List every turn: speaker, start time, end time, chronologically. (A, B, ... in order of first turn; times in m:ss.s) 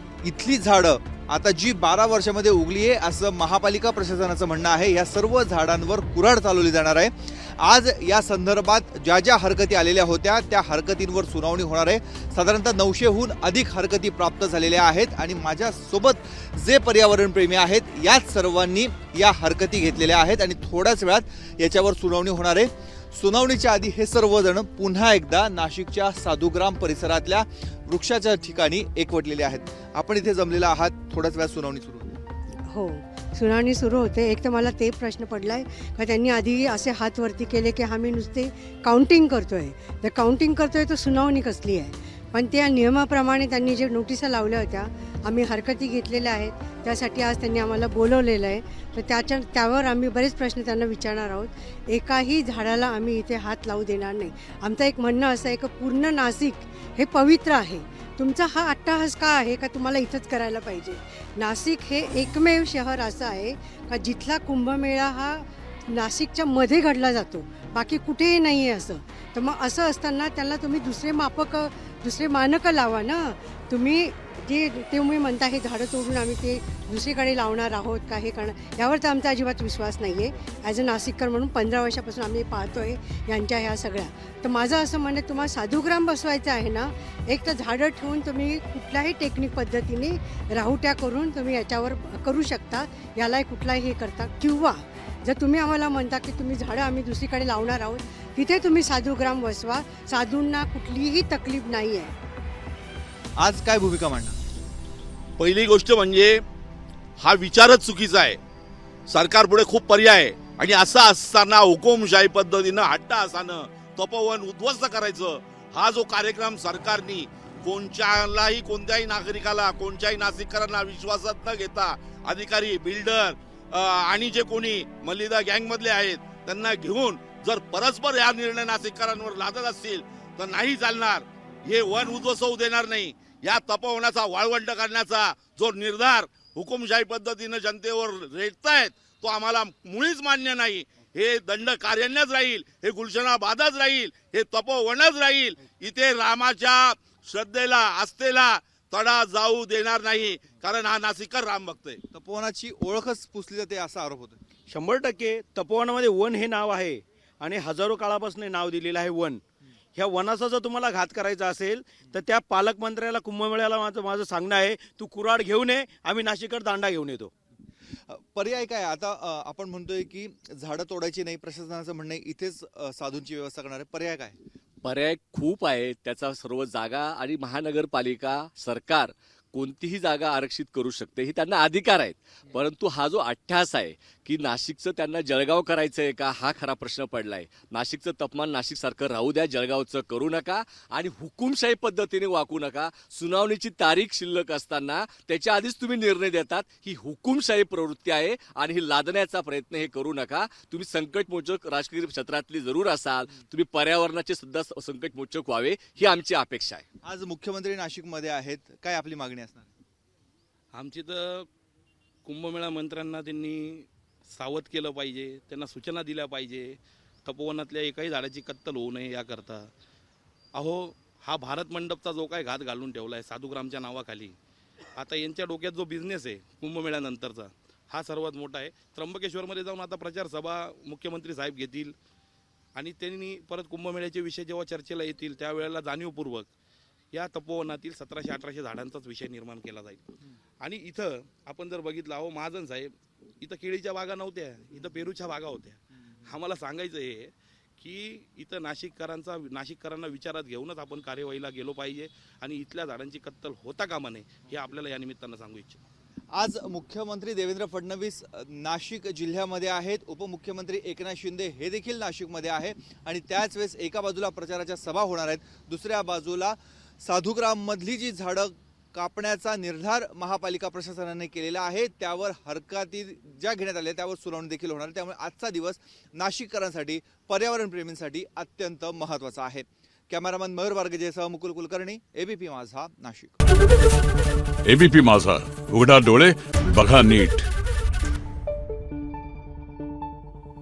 0:00.2-0:32.2 A
0:32.7-1:42.2 B
1:43.4-1:44.3 A
1:45.4-1:46.4 C
1:47.2-1:48.4 C
1:49.1-2:32.0 C
2:32.1-2:34.4 A
2:34.7-2:39.4 D
2:40.0-2:47.3 D
2:48.1-2:54.4 A
2:54.8-3:26.8 E
3:27.0-3:29.7 A
3:30.7-3:31.5 F
3:32.2-3:39.7 F
3:40.5-3:44.4 F
3:45.0-3:51.9 F
3:52.8-3:56.5 F
3:57.1-4:00.0 F
4:00.6-4:15.8 F
4:16.3-4:43.4 A
4:44.6-4:47.5 G